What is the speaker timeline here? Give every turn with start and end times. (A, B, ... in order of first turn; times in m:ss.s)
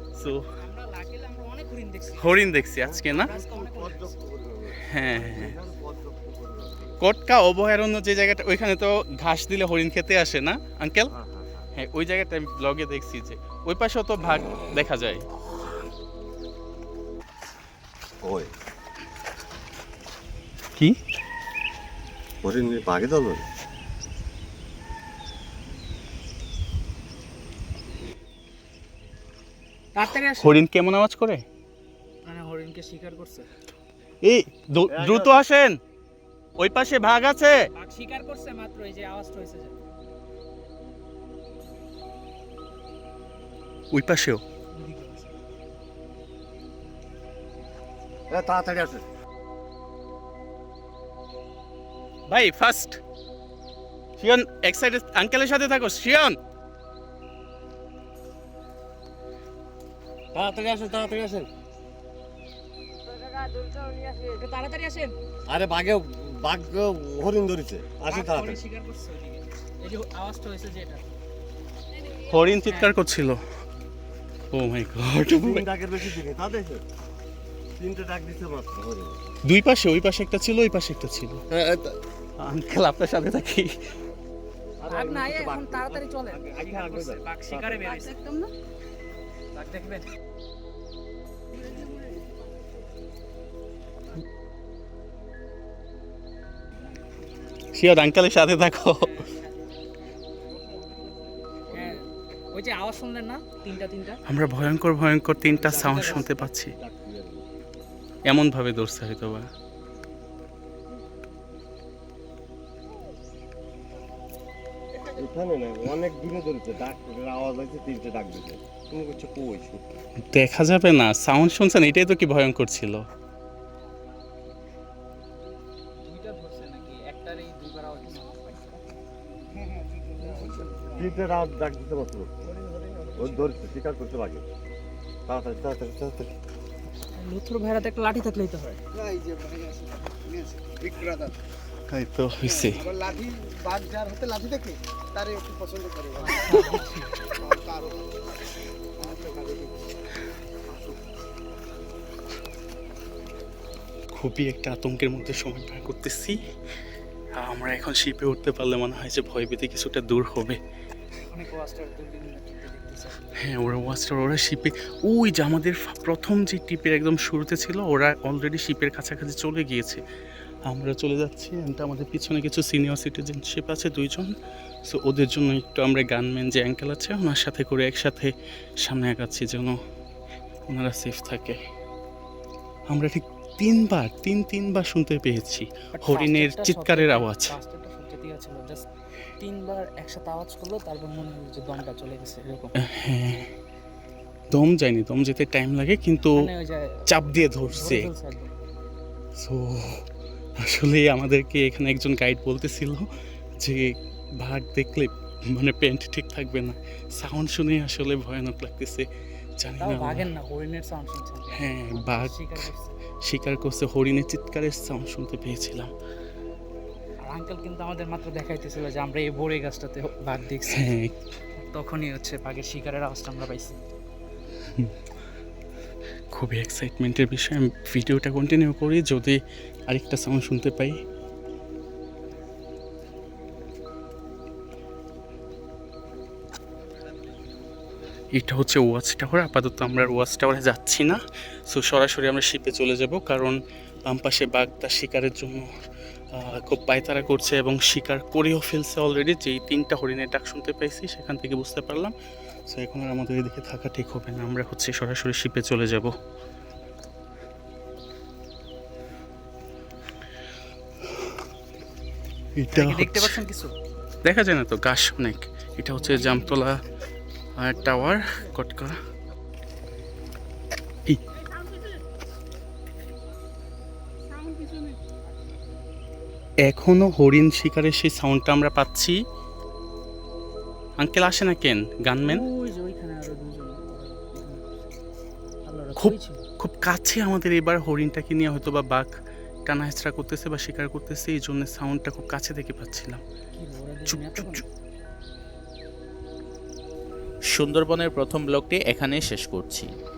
0:00.2-0:00.4 A
0:00.6-0:02.5 B
0:02.2-0:03.3 A
0:02.8-0:07.0 C
0:03.1-0:04.1 B
0:04.9-0:05.6 A
0:07.0-0:11.1 A
0:11.1-0:11.7 C
0:11.8-0:15.2 A
0:18.2-0:18.5 C
0:22.4-0:23.4 C
0:29.9-0:30.6 B
0:30.3-0:31.4 A
0:32.2-0:33.5 B
0:34.2-0:35.8 A
0:34.9-0:35.4 C
0:36.6-0:37.6 A
0:37.7-0:39.8 B
0:43.9-0:44.4 A
0:44.7-0:45.4 B
0:48.3-0:49.0 C
0:52.3-0:53.0 A
0:54.2-0:56.4 A
1:00.3-1:01.5 C
1:03.2-1:05.1 B
1:05.5-1:08.6 C
1:08.1-1:11.0 B
1:12.0-1:12.9 B
1:12.3-1:13.4 A
1:14.5-1:15.6 A
1:15.4-1:16.8 C
1:17.8-1:19.2 C
1:19.5-1:21.4 A
1:21.5-1:22.0 C
1:22.4-1:23.8 A
1:24.8-1:28.0 C
1:24.9-1:28.5 B
1:29.5-1:30.1 B
1:31.6-1:32.4 B
1:37.7-1:39.2 A
1:39.0-1:39.8 B
1:41.7-1:42.0 C
1:41.7-1:44.2 B
1:44.3-1:46.7 A
1:45.5-1:47.4 C
1:45.7-1:46.3 B
1:48.2-1:49.5 A
1:55.0-1:59.9 C
2:00.3-2:03.0 A
2:06.0-2:11.2 B
2:10.9-2:12.3 C
2:12.6-2:13.2 D
2:13.2-2:14.4 C
2:15.3-2:16.3 C
2:17.1-2:18.8 B
2:19.0-2:21.3 D
2:21.9-2:22.8 A
2:22.6-2:26.3 D
2:26.2-2:27.3 B
2:27.5-2:28.1 D
2:29.0-2:29.7 D
2:34.1-2:36.4 A
2:37.4-2:40.6 A
2:41.3-2:43.2 B
2:43.4-2:50.0 A
2:50.7-2:54.3 A
2:54.8-2:59.8 A
3:00.7-3:01.6 A
3:02.9-3:07.5 A
3:06.0-3:08.8 B
3:09.4-3:12.7 B
3:12.8-3:13.5 A
3:14.5-3:16.5 A
3:16.3-3:17.1 B
3:17.1-3:18.1 A
3:17.7-3:18.5 B
3:19.4-3:20.0 A
3:20.6-3:23.1 A
3:23.6-3:29.1 A
3:29.6-3:30.3 A
3:29.8-3:32.9 B
3:31.5-3:32.7 A
3:33.2-3:35.9 A
3:37.2-3:40.9 B
3:40.7-3:41.1 A
3:41.6-3:43.8 B
3:46.3-3:51.0 A
3:58.3-4:05.7 A
4:06.3-4:12.1 A
4:12.7-4:16.1 A
4:22.6-4:23.4 A
4:22.7-4:23.7 B
4:24.2-4:26.7 A
4:25.9-4:26.7 B
4:27.6-4:28.9 A
4:27.8-4:28.5 B
4:31.5-4:31.9 B
4:34.3-4:35.0 B
4:36.6-4:39.2 A
4:41.0-4:42.4 A
4:42.2-4:44.7 B
4:45.6-4:46.4 B
4:46.0-4:49.1 A
4:49.7-4:53.2 A
4:53.6-4:54.6 B
4:54.1-4:54.6 A
4:57.5-4:59.9 E